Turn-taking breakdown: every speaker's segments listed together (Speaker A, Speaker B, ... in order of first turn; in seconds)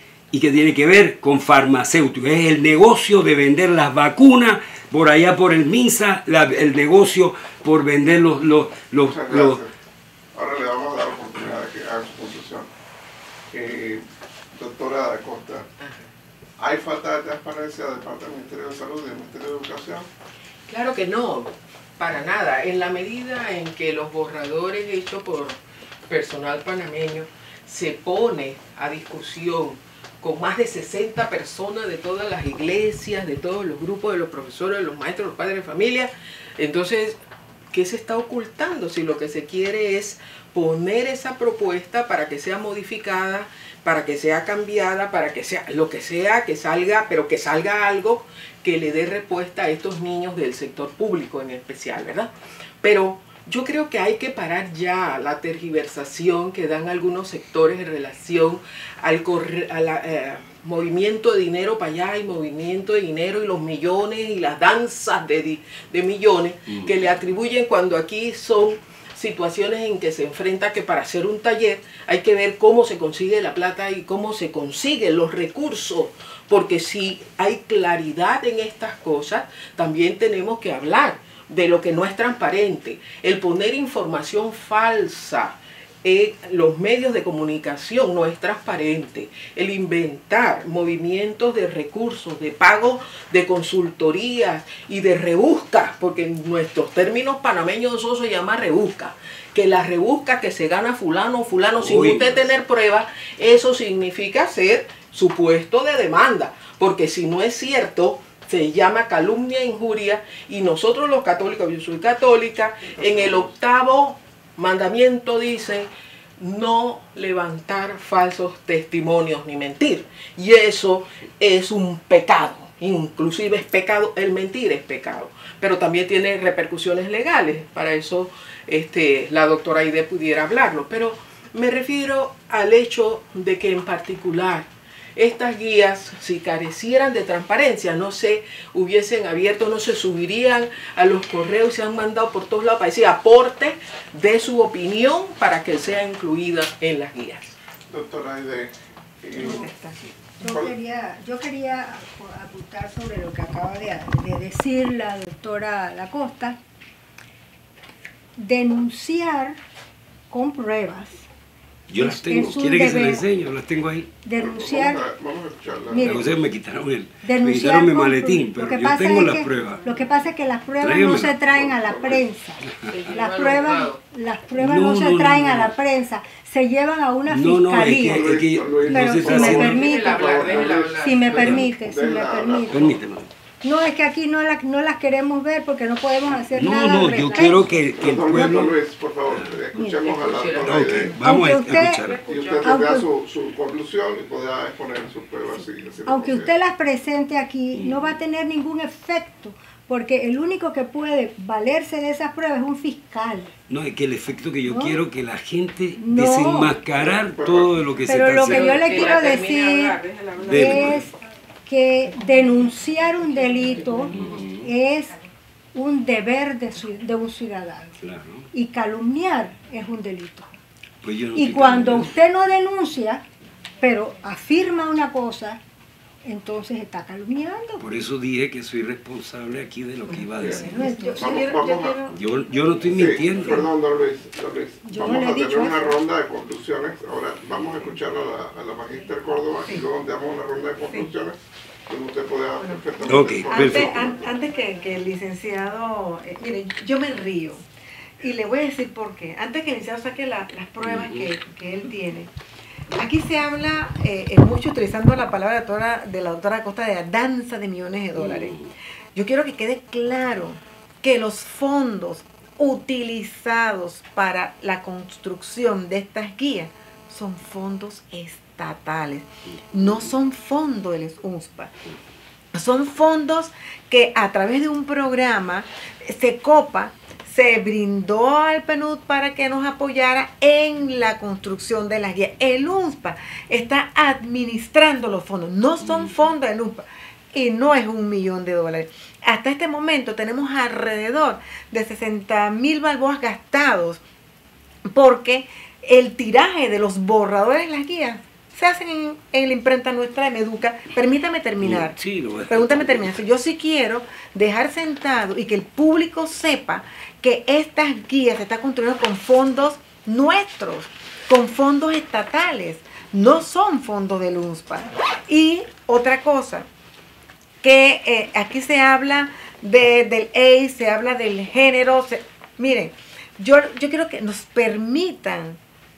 Speaker A: 0.3-9.6, 101.8-102.5, 161.9-164.1, 166.0-169.9, 170.8-171.5, 172.7-173.0, 174.6-175.7, 177.3-179.8, 181.3-181.6, 182.7-183.3, 186.5-188.8, 190.7-192.2, 197.7-198.1, 203.7-209.1, 210.4-211.0, 214.1-214.7, 218.0-218.5, 221.0-222.1, 227.8-230.8, 232.1-233.7, 243.1-244.0, 250.8-251.3, 258.1-258.7, 285.8-286.2, 301.6-303.1
Speaker B: 9.1-9.7, 10.3-12.7, 13.5-15.7, 16.6-20.1, 147.9-149.7, 150.4-150.7, 164.3-166.3, 171.6-172.2, 177.9-183.0, 188.0-191.2, 192.3-196.5, 207.0-208.4, 230.3-232.1, 232.8-244.2
Speaker C: 15.8-16.1, 20.7-37.2, 37.7-52.3, 52.8-147.5, 172.9-174.0, 179.3-181.5, 190.0-191.0, 191.8-192.9, 208.4-211.1
Speaker D: 149.3-150.0, 230.1-232.1, 242.6-247.6, 248.2-252.3, 252.9-258.6, 259.1-271.8, 272.5-294.0, 294.8-316.7, 317.6-325.6
Speaker E: 149.4-149.7, 150.4-156.6, 158.4-159.6, 160.3-161.3, 161.9-163.2, 164.2-165.0, 165.9-166.3, 167.2-183.0, 183.6-187.7, 191.1-192.0, 192.6-193.1, 196.0-203.5, 204.6-205.0, 206.0-206.7, 208.1-211.1, 211.7-215.2, 215.7-218.0, 218.5-220.5, 221.3-223.2, 223.8-225.6, 226.2-227.8, 230.6-231.7, 234.8-235.9